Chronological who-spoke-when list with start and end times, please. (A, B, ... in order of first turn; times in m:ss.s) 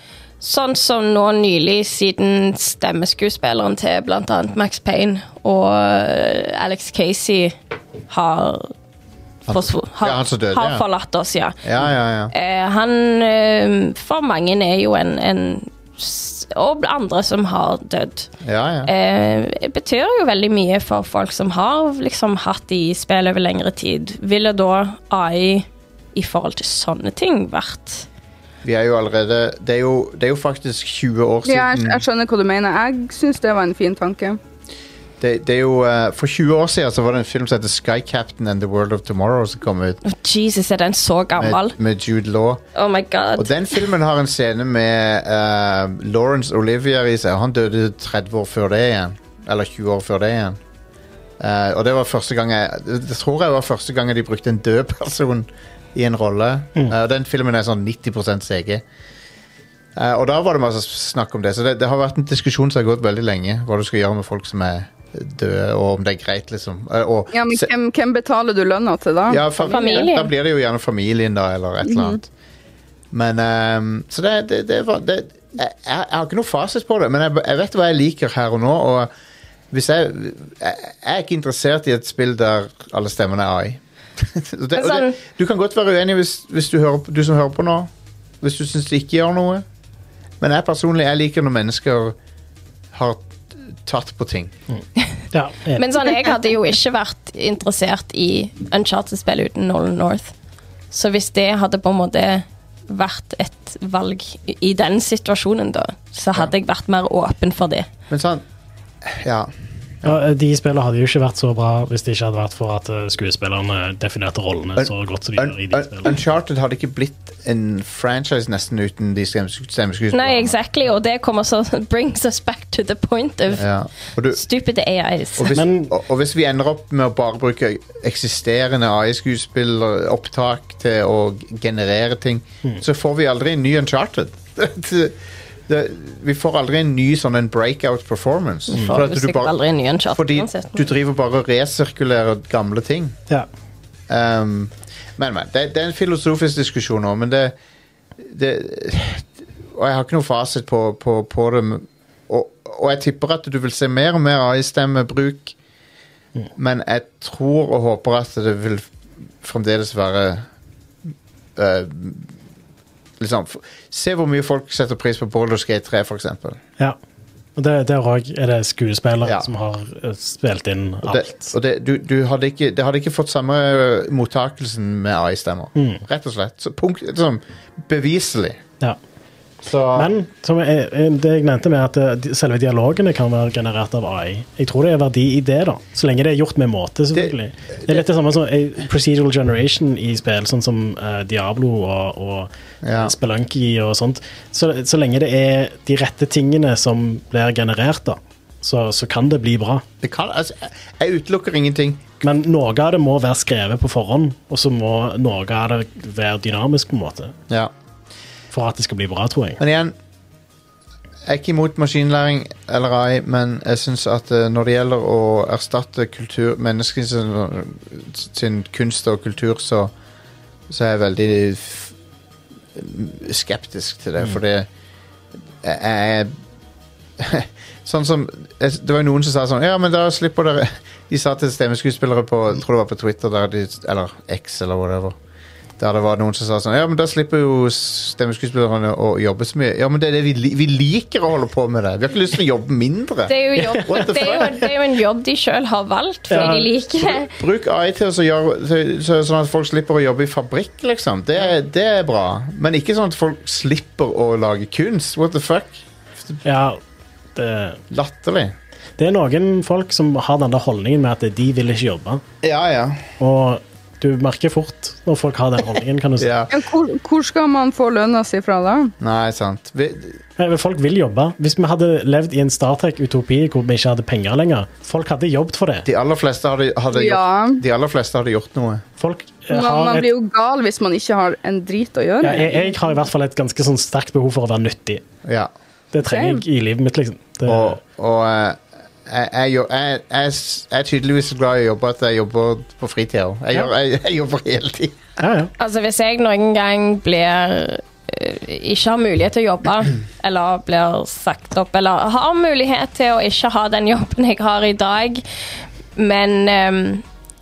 0:00.4-0:07.6 A
0:08.1-0:08.7 A
0:09.5-0:11.7 A
0:09.5-0:10.8 B
0:11.6-0:12.3 B
0:12.3-0:18.3 A
0:18.4-0:18.9 B
0:18.8-0:28.1 A
0:28.6-0:32.0 B
0:31.4-0:34.4 C
0:35.2-0:40.0 B
0:40.0-0:41.7 A
0:41.4-0:42.6 B
0:42.8-0:43.8 A
0:43.4-0:50.6 B
0:51.4-0:58.8 B
1:00.0-1:07.7 B
1:07.3-1:10.1 C
1:09.3-1:12.3 B
1:09.7-1:10.3 A
1:11.8-1:12.2 C
1:13.1-1:19.1 B
1:19.7-1:27.9 B
1:24.8-1:25.2 A
1:28.4-1:29.6 B
1:30.4-1:32.2 B
1:32.9-1:34.5 B
1:35.3-1:35.8 D
1:35.8-1:40.3 A
1:40.9-1:47.9 A
1:48.1-1:48.4 B
1:49.0-1:50.2 B
1:50.0-1:56.1 D
1:54.8-2:00.6 B
2:00.1-2:03.7 A
2:03.5-2:04.4 B
2:04.3-2:05.6 A
2:05.4-2:19.5 B
2:05.5-2:06.0 D
2:18.7-2:20.8 A
2:18.8-2:19.0 D
2:20.1-2:23.2 B
2:24.1-2:27.6 B
2:28.2-2:35.6 B
2:36.6-2:38.9 B
2:39.4-2:40.5 B
2:41.6-2:42.3 B
2:43.2-2:46.6 B
2:47.6-2:51.5 D
2:49.2-2:49.5 B
2:51.0-2:58.6 B
2:55.8-2:56.0 D
2:59.6-3:00.1 B
2:59.9-3:19.8 D
3:07.1-3:08.0 B
3:12.8-3:13.2 B
3:20.0-3:22.1 B
3:22.2-3:27.4 D
3:28.5-3:29.6 D
3:29.6-3:30.0 B
3:31.3-3:39.9 B
3:40.7-3:41.9 B
3:42.8-3:44.7 B
3:45.6-3:46.3 B
3:47.2-3:55.2 B
3:55.8-4:04.7 B
4:03.3-4:07.3 A
4:03.6-4:04.1 D
4:06.3-4:06.7 D
4:06.4-4:16.4 B
4:16.4-4:16.8 D
4:17.4-4:17.8 D
4:17.9-4:18.5 B
4:19.0-4:22.2 D
4:22.4-4:23.1 B
4:23.2-4:26.3 D
4:26.2-4:26.6 B
4:26.5-4:28.9 C
4:29.0-4:30.2 B
4:30.4-4:35.9 D
4:35.8-4:38.8 B
4:36.9-4:37.6 C
4:39.0-4:40.1 D
4:39.5-4:42.8 C
4:42.2-4:45.0 D
4:45.2-4:45.5 B
4:45.9-4:47.8 D
4:46.0-4:46.4 C
4:47.5-4:55.2 B
4:55.2-4:55.5 D
4:55.6-5:05.2 A
5:06.0-5:07.0 A